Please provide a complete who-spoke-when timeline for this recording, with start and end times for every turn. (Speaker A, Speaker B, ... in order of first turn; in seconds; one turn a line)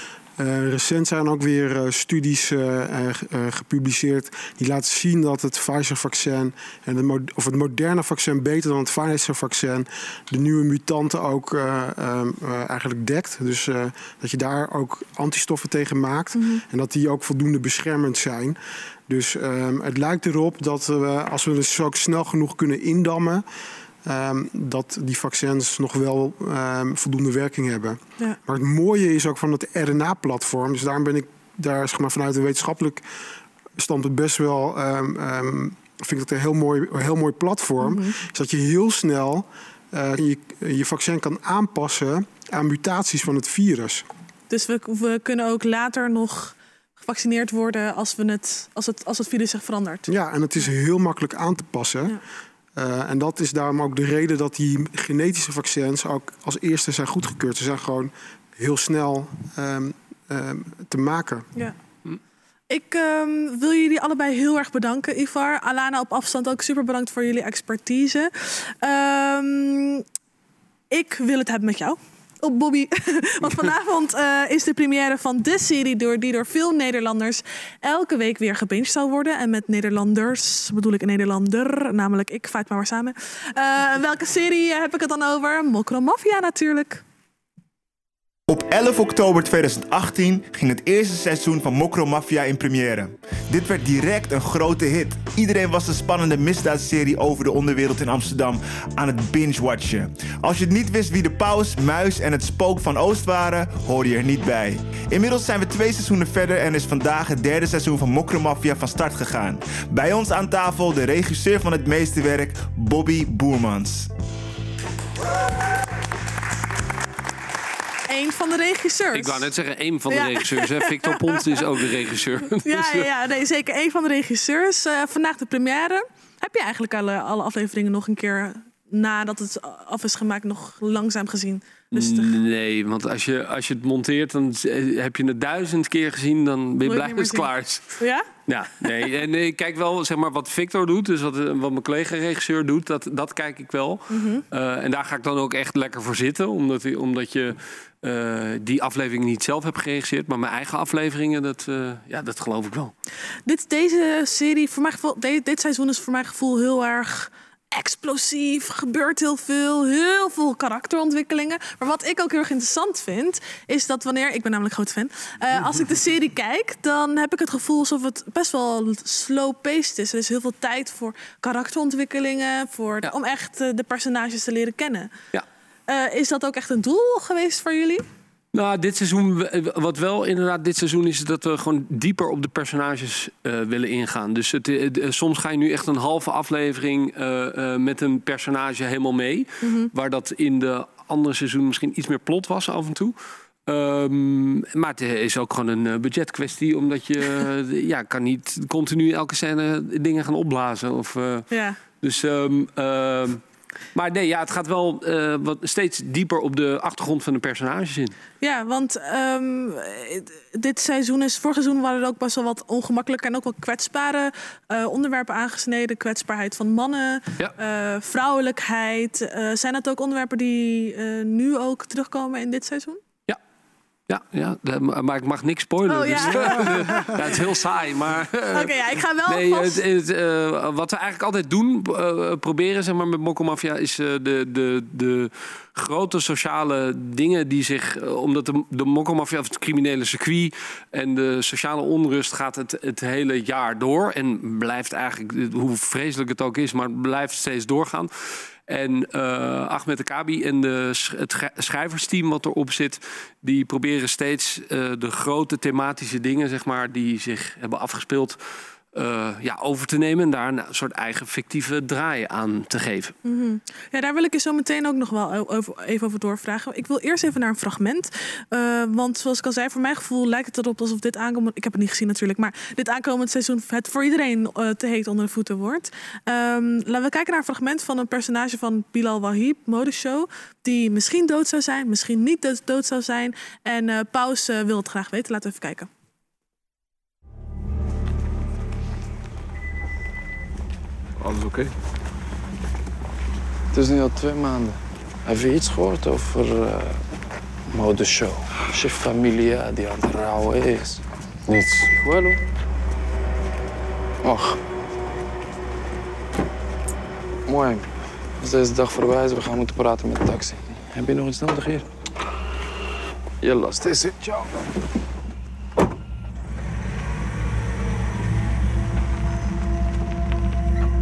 Speaker A: 0.4-23.4
Speaker B: 16.3-16.6
Speaker A: 24.0-33.0
Speaker A: 33.8-44.0
Speaker B: 37.8-38.1
Speaker B: 44.5-50.1
Speaker A: 50.1-52.2
Speaker A: 52.7-61.5
Speaker B: 62.7-70.0
Speaker B: 70.9-87.0
Speaker C: 88.5-114.1
Speaker B: 118.1-119.5
Speaker D: 119.1-123.1
Speaker B: 120.1-121.6
Speaker B: 122.6-132.4
Speaker D: 131.9-152.9
Speaker B: 136.8-138.3
Speaker B: 144.1-144.4
Speaker B: 153.4-175.1
Speaker B: 175.9-178.0
Speaker D: 178.5-193.1
Speaker B: 189.6-189.9
Speaker D: 193.7-203.4
Speaker B: 201.5-201.8
Speaker D: 203.9-208.2
Speaker B: 208.4-223.0
Speaker D: 224.1-258.4
Speaker B: 225.9-227.1
Speaker B: 228.5-229.8
Speaker D: 258.9-263.1
Speaker B: 263.2-285.9
Speaker E: 291.2-291.7
Speaker E: 293.7-297.0
Speaker E: 297.7-302.4
Speaker E: 304.2-304.6
Speaker E: 307.5-311.9
Speaker E: 313.4-314.5